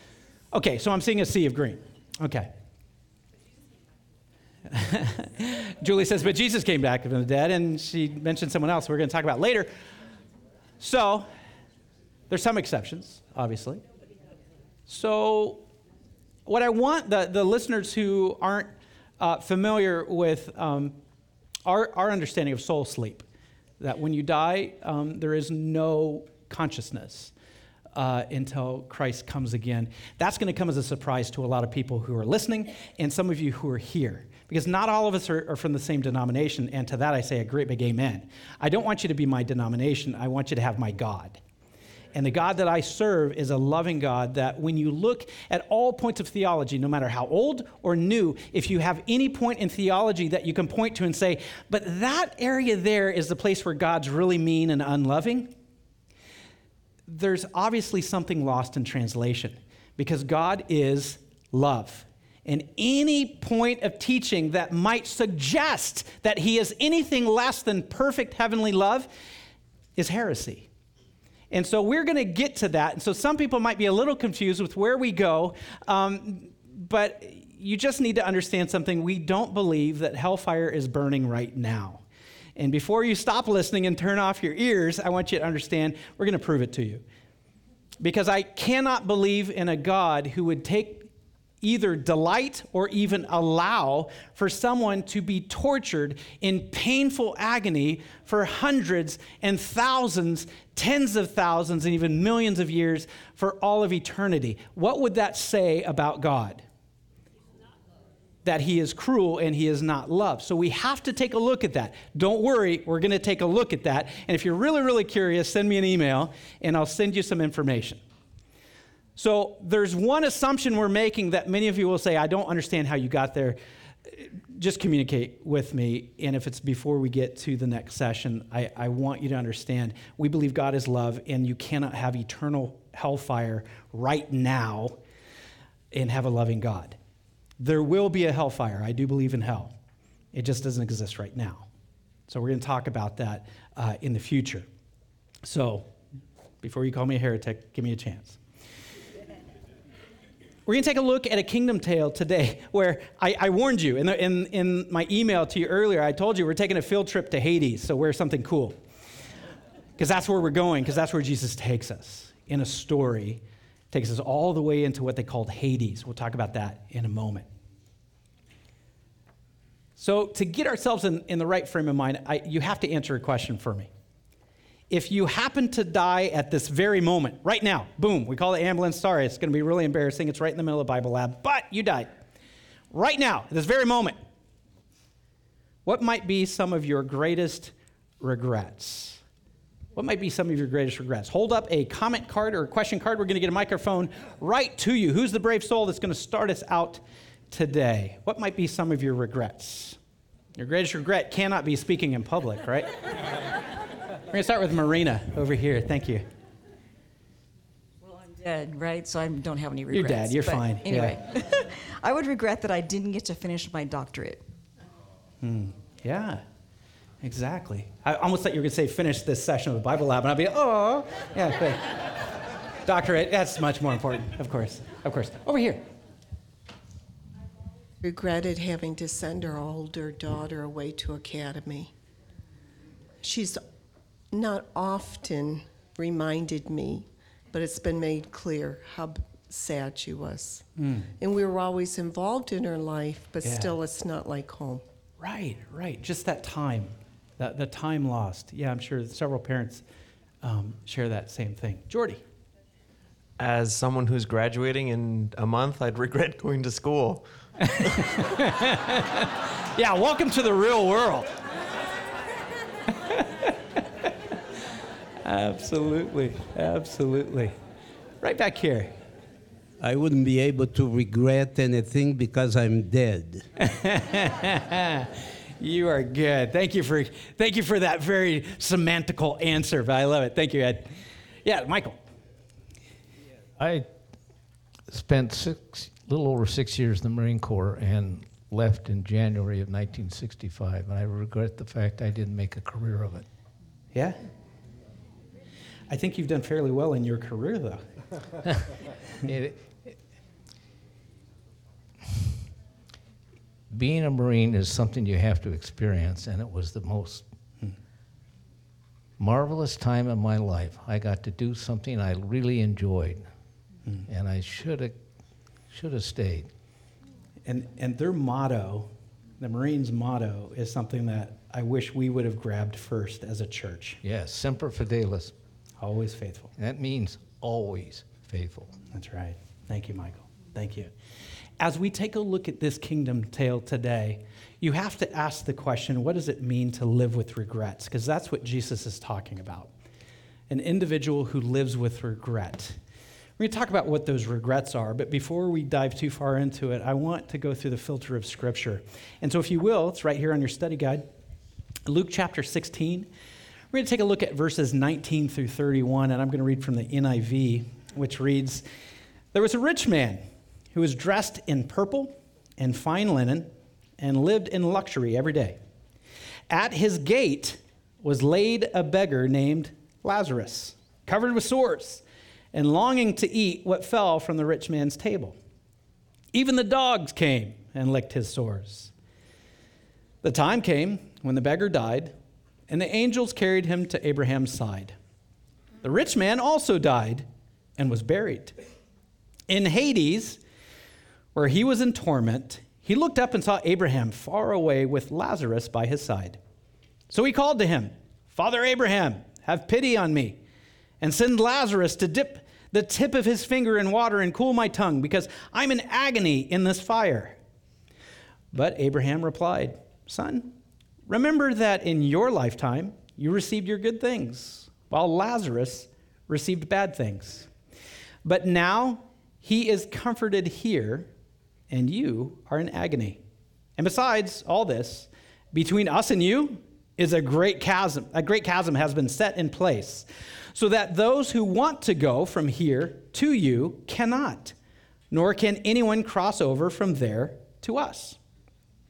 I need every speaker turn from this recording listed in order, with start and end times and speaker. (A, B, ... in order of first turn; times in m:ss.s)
0:00.5-0:02.5 A
0:04.7-0:09.7 A
0:10.8-0:11.3 A
0:12.3-0:13.8 A
0:14.9-0:15.6 A
0:16.4-0:21.0 A
0:21.6-0:23.2 A
0:23.8-0:27.3 A
0:27.9-0:41.4 A
0:42.1-0:55.5 A
0:57.1-1:09.1 A
1:10.0-1:10.7 A
1:11.5-1:22.0 A
1:22.6-1:27.0 A
1:28.0-1:31.1 A
1:31.6-1:46.6 A
1:48.4-1:58.0 A
1:59.2-2:03.6 A
2:04.1-2:15.0 A
2:15.9-2:17.0 A
2:17.6-2:19.7 A
2:20.3-2:21.7 A
2:22.3-2:24.7 A
2:25.4-2:25.9 A
2:26.6-2:28.4 A
2:30.6-2:38.8 A
2:40.0-2:47.4 A
2:50.0-2:53.9 A
2:54.9-3:02.1 A
3:02.9-3:04.2 A
3:05.8-3:09.2 A
3:09.9-3:20.0 A
3:20.6-3:22.9 A
3:24.3-3:26.2 A
3:28.0-3:34.4 B
3:29.9-3:31.1 A
3:35.4-3:36.4 A
3:37.2-3:42.0 A
3:42.8-3:45.8 A
3:48.0-3:51.9 C
3:53.2-3:53.6 C
3:54.3-4:00.6 C
4:00.8-4:01.1 A
4:01.2-4:04.8 C
4:03.4-4:03.7 A
4:05.2-4:09.8 A
4:10.4-4:12.2 A
4:13.4-4:17.2 D
4:17.6-4:21.3 A
4:22.9-4:23.8 A
4:25.2-4:27.5 A
4:28.2-4:28.9 A
4:29.8-4:33.4 E
4:33.6-4:40.9 A
4:41.4-4:42.0 A
4:43.6-4:43.9 F
4:44.9-4:53.2 F
4:55.9-4:57.8 A
4:59.2-5:00.0 F
5:03.7-5:07.2 F
5:09.2-5:13.2 F
5:14.0-5:14.9 F
5:15.7-5:16.5 F
5:17.4-5:18.9 A
5:19.4-5:24.0 A
5:24.0-5:25.3 F
5:25.8-5:26.5 A
5:26.6-5:28.8 F
5:28.9-5:30.9 A
5:31.6-5:39.7 A
5:40.5-5:42.8 A
5:43.4-5:51.1 A
5:51.8-5:53.1 A
5:53.7-5:58.6 A
5:59.3-6:00.2 A
6:00.7-6:05.6 A
6:06.5-6:12.0 A
6:12.5-6:15.3 A
6:16.3-6:18.9 A
6:20.2-6:22.1 A
6:22.7-6:24.9 A
6:25.8-6:27.2 A
6:27.8-6:28.5 A
6:29.5-6:30.4 A
6:31.3-6:36.4 A
6:37.1-6:40.4 A
6:41.0-6:47.4 A
6:48.5-6:50.5 A
6:51.1-6:57.5 A
6:58.2-7:01.1 A
7:01.7-7:03.2 A
7:03.8-7:14.5 A
7:15.1-7:18.2 A